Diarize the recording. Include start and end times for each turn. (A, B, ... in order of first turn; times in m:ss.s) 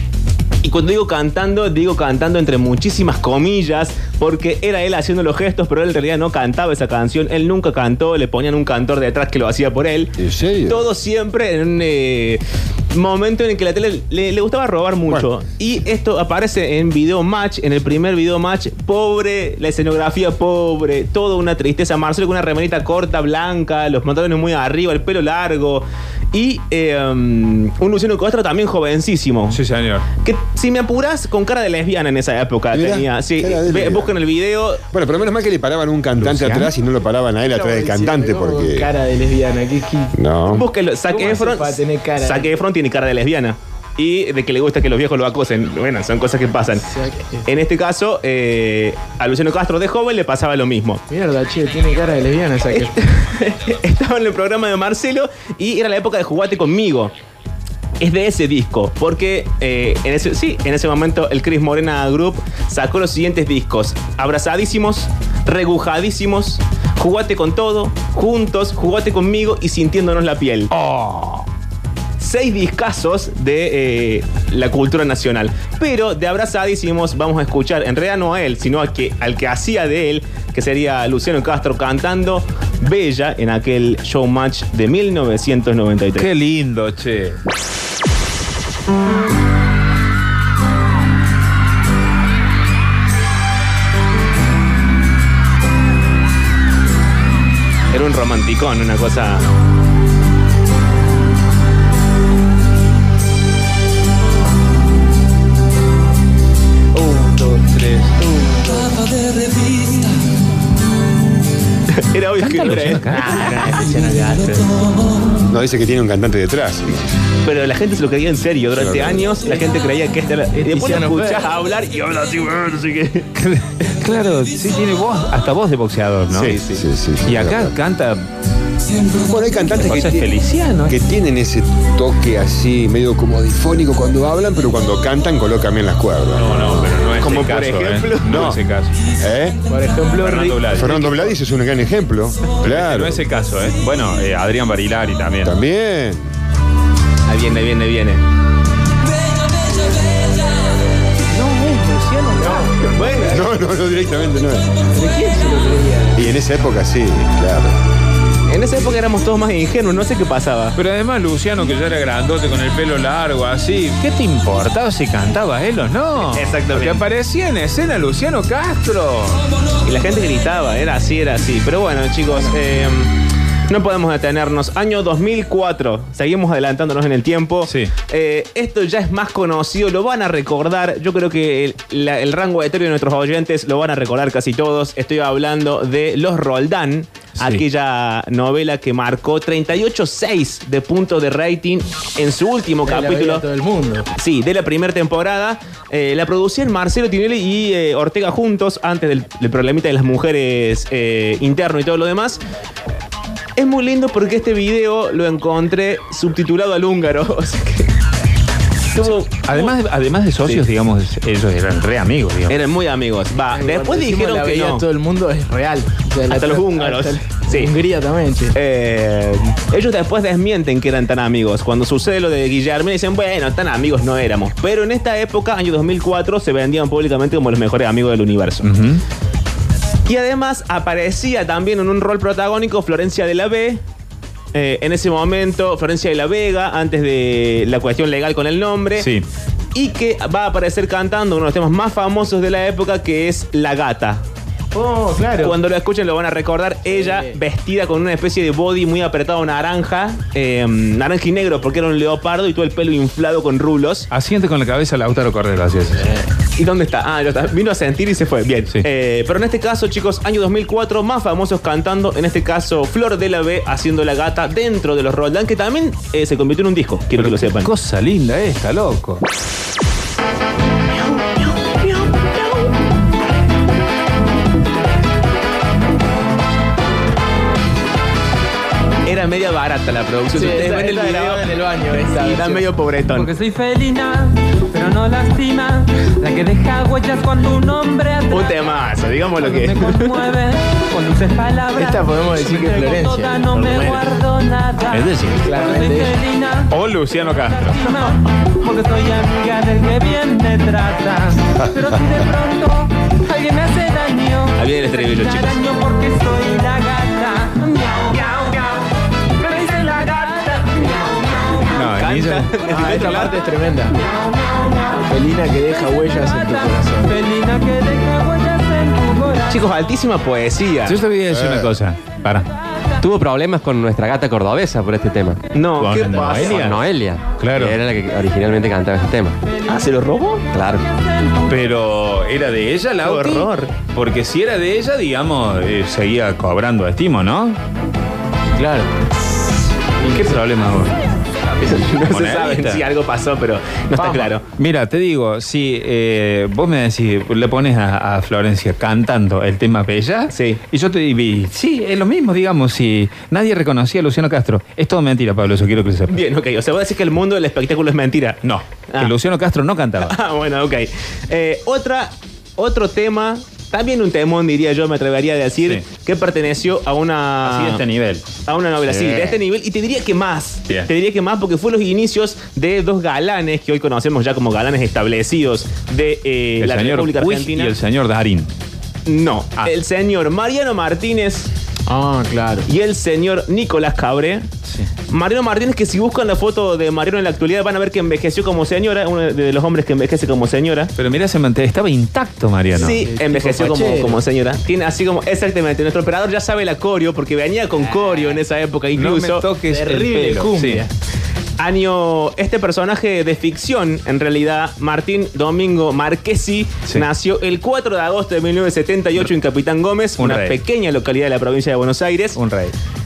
0:00.6-0:29.6 A
0:10.2-0:10.9 B
0:29.5-0:30.1 C
0:30.2-0:34.8 A
0:32.7-0:34.2 B
0:34.9-0:38.9 B
0:36.2-0:36.7 C
0:37.5-0:40.2 D
0:40.2-0:40.7 B
0:40.5-0:46.8 A
0:41.1-0:42.6 D
0:46.8-0:47.5 D
0:47.5-0:51.0 A
0:51.1-0:53.0 D
0:52.7-0:57.1 A
0:58.0-1:10.7 A
1:10.7-1:11.4 C
1:12.2-1:26.3 A
1:26.2-1:27.4 C
1:37.9-1:39.5 A
1:46.9-1:49.0 C
1:51.9-1:53.2 A
1:52.4-1:53.8 C
1:53.1-1:54.7 D
1:55.5-1:57.2 B
1:57.4-2:03.3 A
1:58.7-1:59.3 B
2:00.5-2:01.4 D
2:03.4-2:06.6 C
2:06.3-2:07.7 B
2:06.4-2:06.8 A
2:07.2-2:08.3 C
2:09.2-2:10.3 B
2:09.8-2:11.0 C
2:10.9-2:17.1 B
2:16.3-2:19.0 C
2:17.1-2:18.5 A
2:18.2-2:18.6 B
2:19.1-2:19.6 B
2:19.7-2:21.2 D
2:20.2-2:21.3 C
2:20.7-2:23.2 B
2:22.6-2:25.6 C
2:25.4-2:26.3 B
2:27.3-2:28.2 A
2:31.3-2:33.4 D
2:32.4-2:33.5 A
2:33.2-2:34.7 B
2:35.0-2:36.4 D
2:36.2-2:37.8 B
2:38.5-2:40.8 A
2:40.8-2:49.4 C
2:46.2-2:47.0 A
2:49.8-2:53.2 A
2:53.7-3:13.4 A
2:57.6-2:57.9 C
3:07.4-3:07.6 C
3:12.8-3:14.1 D
3:14.2-3:22.4 A
3:23.6-3:27.9 A
3:28.9-3:29.8 A
3:29.0-3:32.6 C
3:32.5-3:34.9 A
3:33.5-3:38.6 D
3:36.3-3:37.7 A
3:38.5-3:48.7 A
3:48.6-3:49.0 C
3:50.1-3:53.8 A
3:54.5-3:59.1 A
3:59.0-3:59.3 C
3:59.8-4:04.2 A
4:04.7-4:05.6 D
4:05.4-4:14.1 A
4:06.9-4:07.4 D
4:14.1-4:16.1 C
4:16.0-4:16.3 D
4:16.6-4:27.7 A
4:27.2-4:29.2 C
4:31.6-4:32.3 A
4:39.1-4:41.5 A
4:40.3-4:42.7 D
4:42.1-4:43.3 A
4:43.1-4:48.5 E
4:48.3-4:50.3 A
4:49.4-4:51.9 E
4:51.7-4:54.1 D
4:52.5-4:55.0 E
4:53.6-4:54.0 A
4:54.9-4:55.8 C
4:55.4-4:56.2 D
4:55.6-4:56.7 E
4:56.7-4:57.8 C
4:57.9-5:08.8 E
5:01.6-5:02.3 B
5:04.6-5:05.7 A
5:09.4-5:10.9 E
5:11.7-5:12.5 C
5:11.8-5:13.4 A
5:12.6-5:14.1 D
5:15.0-5:17.2 D
5:17.1-5:19.4 E
5:19.5-5:21.0 A
5:20.9-5:22.5 C
5:21.3-5:21.7 B
5:23.0-5:25.4 F
5:25.5-5:26.8 A
5:25.8-5:26.8 C
5:26.2-5:29.4 F
5:27.4-5:27.8 C
5:29.7-5:30.4 A
5:30.5-5:30.9 F
5:31.5-5:37.6 C
5:33.0-5:33.8 A
5:38.5-5:38.9 D
5:40.0-5:41.0 C
5:41.6-5:42.9 C
5:41.6-5:44.4 A
5:44.0-5:44.3 D
5:44.6-5:56.2 C
5:50.3-5:50.6 A
5:56.1-5:59.1 A
5:58.4-6:00.2 C
6:00.0-6:07.8 A
6:05.6-6:05.9 C
6:07.4-6:08.3 C
6:08.5-6:17.8 A
6:08.8-6:09.3 C
6:16.6-6:18.5 C
6:19.1-6:21.5 A
6:21.9-6:22.7 D
6:22.7-6:24.5 A
6:24.6-6:24.9 C
6:25.1-6:30.9 A
6:31.0-6:33.0 C
6:32.7-6:39.5 A
6:32.8-6:34.2 D
6:37.8-6:38.4 D
6:39.0-6:40.8 C
6:39.6-6:40.9 D
6:41.6-6:52.4 A
6:50.2-6:50.6 C
6:52.4-6:52.8 C